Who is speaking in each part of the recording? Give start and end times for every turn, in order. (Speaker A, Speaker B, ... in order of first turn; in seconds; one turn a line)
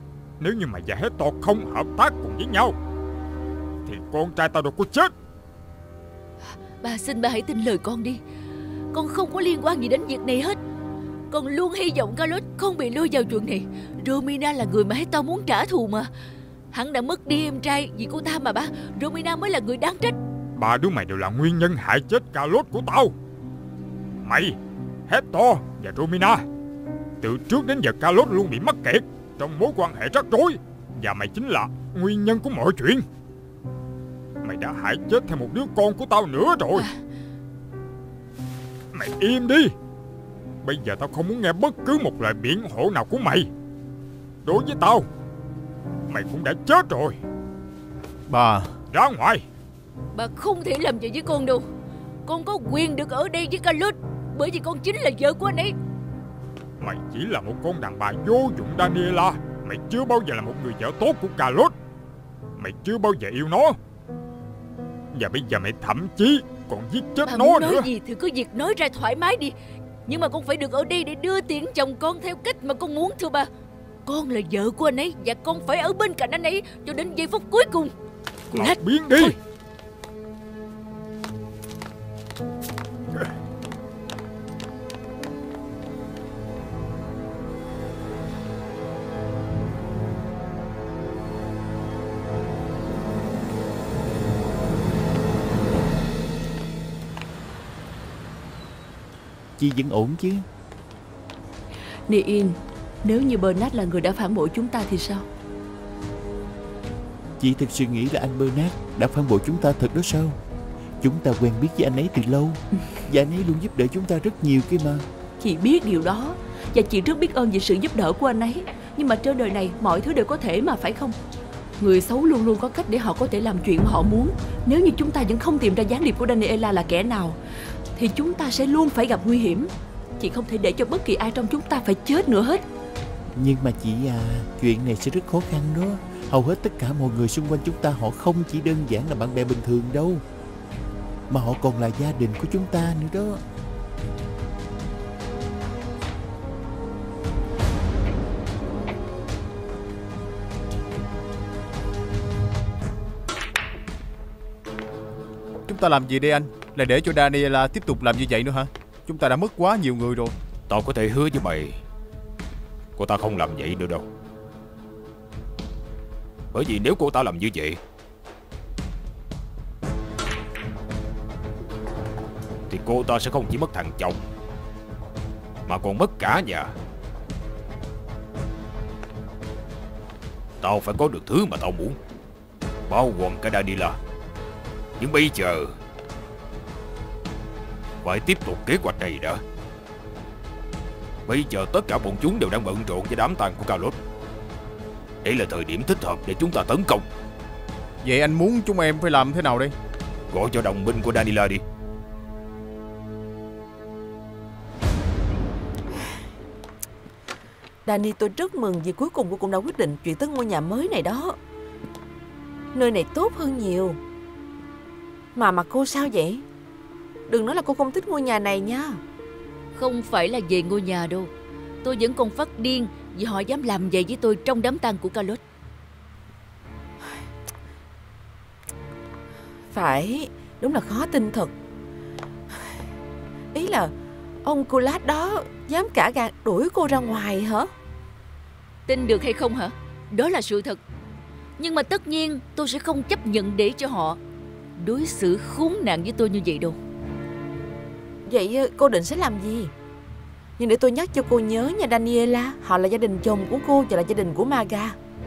Speaker A: 0.4-2.7
Speaker A: 3.9-5.1
Speaker B: 6.8-8.2
Speaker B: 8.9-10.6
Speaker B: 11.3-16.1
Speaker B: 16.7-20.1
Speaker A: 20.6-23.1
Speaker A: 24.2-24.6
Speaker A: 25.1-26.4
Speaker A: 27.2-33.0
Speaker A: 34.4-36.9
Speaker A: 38.9-39.7
Speaker A: 40.6-43.5
Speaker A: 44.4-45.1
Speaker A: 46.1-47.2
Speaker C: 48.3-48.7
Speaker A: 48.9-49.4
Speaker B: 50.1-51.6
Speaker B: 52.2-55.7
Speaker A: 56.8-61.7
Speaker A: 62.6-63.8
Speaker A: 65.1-67.9
Speaker B: 67.2-69.5
Speaker B: 70.0-73.5
Speaker B: 74.0-77.9
Speaker A: 78.5-79.3
Speaker B: 78.5-79.3
Speaker D: 99.6-100.4
Speaker E: 102.1-105.2
Speaker D: 107.4-110.4
Speaker D: 111.0-115.0
Speaker E: 115.4-121.2
Speaker E: 121.8-127.4
Speaker E: 128.0-132.6
Speaker D: 133.3-140.2
Speaker D: 141.3-143.4
Speaker C: 155.7-160.3
Speaker F: 160.7-161.8
Speaker F: 162.9-164.1
Speaker F: 166.5-167.8
Speaker F: 172.7-174.2
Speaker F: 175.7-176.7
Speaker F: 180.6-182.0
Speaker F: 182.9-184.0
Speaker F: 185.0-185.8
Speaker F: 188.0-189.4
Speaker F: 191.3-194.0
Speaker F: 195.2-197.0
Speaker C: 198.0-199.7
Speaker F: 200.3-201.6
Speaker G: 207.8-211.4
Speaker G: 212.7-214.0
Speaker G: 215.3-216.4
Speaker G: 217.3-219.0
Speaker B: 219.7-221.3
Speaker B: 221.8-225.4
Speaker G: 229.7-231.5
Speaker G: 233.5-233.9
Speaker G: 234.4-237.7
Speaker B: 238.9-240.8
Speaker B: 241.6-244.2
Speaker B: 244.8-246.8
Speaker G: 248.3-249.7
Speaker G: 250.6-254.9